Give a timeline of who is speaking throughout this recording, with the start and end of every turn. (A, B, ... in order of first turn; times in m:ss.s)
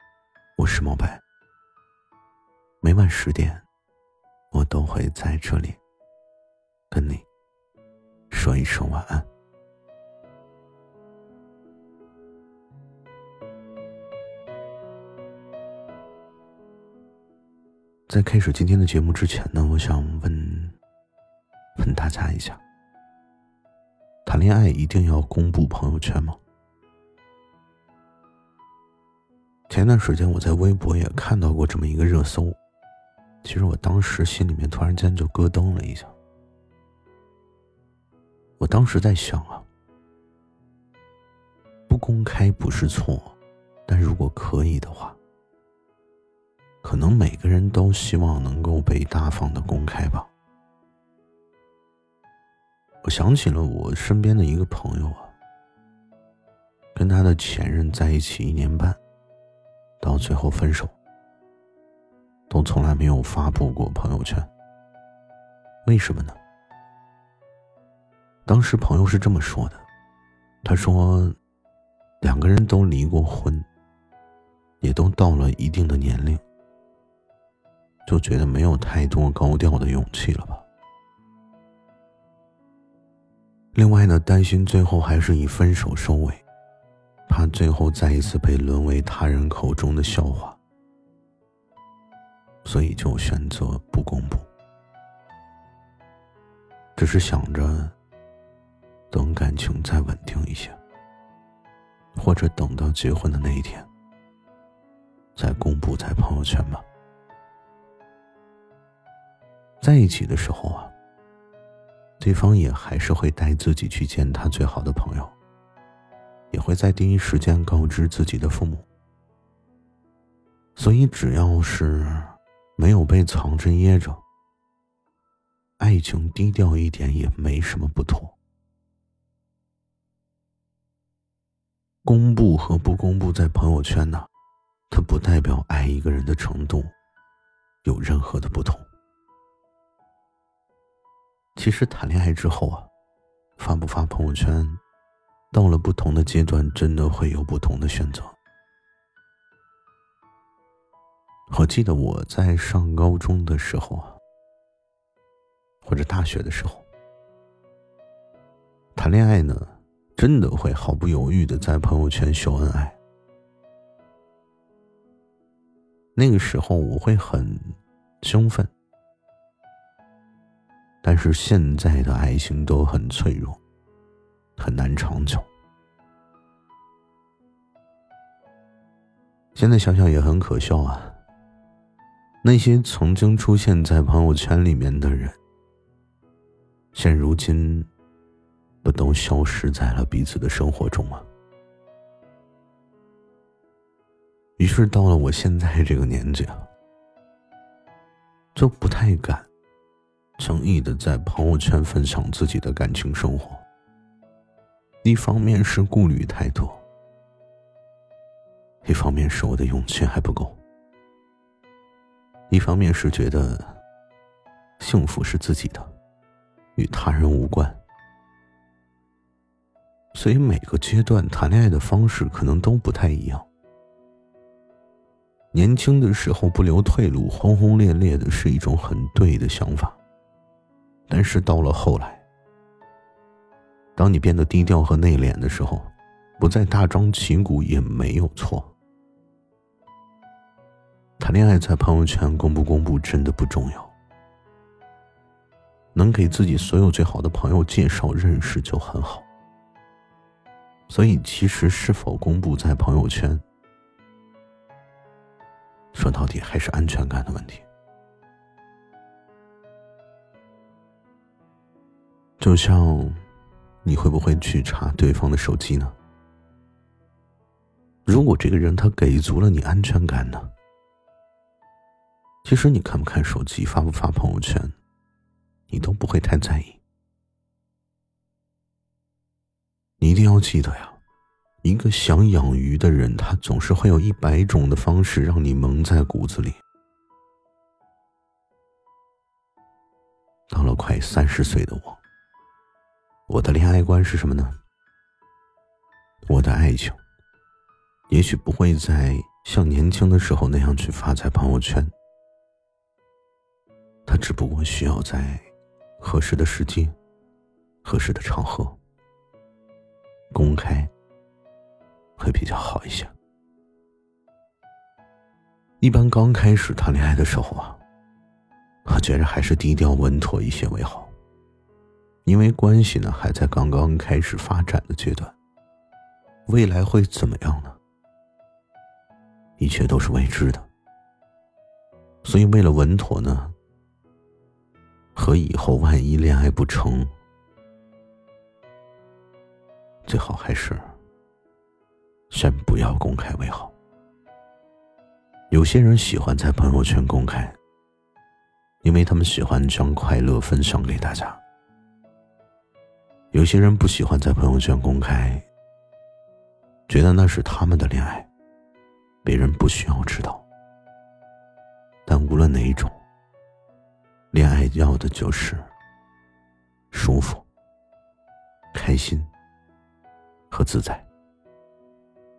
0:00.6-0:01.2 A
0:02.8-0:03.6 A
0:04.5-0:05.8 A
0:06.9-0:07.2 A
0:08.3-0:09.3 A
0:18.1-0:20.7 A
0:21.8-0:22.6 A
0:24.2-0:26.4 A
0:29.7-0:32.6 A
0:33.4-0:36.1 A
0:38.6-0:39.6 A
0:41.9-0:43.3 A
0:43.9-0:45.2 A
0:46.8-0:50.3 A
0:53.0-0:55.3 A
0:56.9-0:59.0 A
1:00.0-1:00.9 A
1:02.5-1:04.5 A
1:05.8-1:06.4 A
1:08.4-1:09.8 A
1:10.6-1:11.4 A
1:12.2-1:13.7 A
1:14.8-1:16.4 A
1:18.0-1:20.6 A
1:23.7-1:26.4 A
1:27.3-1:30.6 A
1:32.6-1:34.5 A
1:37.0-1:37.9 A
1:39.1-1:40.8 A
1:42.1-1:43.9 A
1:45.4-1:46.8 A
1:49.8-1:50.9 A
1:52.2-1:55.3 A
1:56.5-1:58.8 A
2:00.8-2:04.2 A
2:05.8-2:08.3 A
2:12.0-2:14.3 A
2:14.9-2:16.9 A
2:17.8-2:18.9 A
2:21.6-2:22.9 A
2:23.6-2:24.8 A
2:25.5-2:28.3 A
2:31.5-2:34.2 A
2:35.8-2:36.8 A
2:39.0-2:43.0 A
2:46.1-2:48.7 A
2:51.0-2:53.6 A
2:54.6-2:55.5 A
2:59.5-3:01.2 A
3:02.4-3:05.4 A
3:06.9-3:07.9 A
3:08.8-3:11.3 A
3:14.6-3:16.7 A
3:18.5-3:19.5 A
3:20.4-3:23.6 A
3:25.0-3:26.8 A
3:28.8-3:30.6 A
3:32.5-3:33.8 A
3:34.8-3:35.9 A
3:36.8-3:37.8 A
3:40.1-3:43.5 A
3:45.5-3:50.0 A
3:51.1-3:52.2 A
3:54.0-3:58.7 A
4:01.2-4:03.9 A
4:05.9-4:09.2 A
4:10.9-4:13.4 A
4:15.9-4:17.6 A
4:22.4-4:23.2 A
4:23.8-4:25.9 A
4:28.0-4:30.5 A
4:32.4-4:34.7 A
4:35.7-4:36.8 A
4:40.0-4:41.0 A
4:41.6-4:46.6 A
4:50.5-4:52.0 A
4:53.3-4:54.6 A
4:56.2-4:57.0 A
4:58.1-5:01.9 A
5:04.0-5:05.5 A
5:06.0-5:06.9 A
5:07.8-5:08.8 A
5:10.3-5:10.9 A
5:12.2-5:13.1 A
5:15.8-5:17.8 A
5:18.8-5:21.1 A
5:22.2-5:25.3 A
5:26.5-5:27.8 A
5:29.6-5:30.7 A
5:32.2-5:33.5 A
5:35.1-5:37.1 A
5:40.0-5:40.9 A
5:42.3-5:43.7 A
5:45.5-5:47.6 A
5:48.8-5:51.4 A
5:53.3-5:55.4 A
5:56.9-5:58.3 A
5:59.2-6:00.4 A
6:02.0-6:03.0 A
6:04.3-6:05.7 A
6:06.9-6:07.4 A
6:08.7-6:09.3 A
6:10.5-6:11.1 A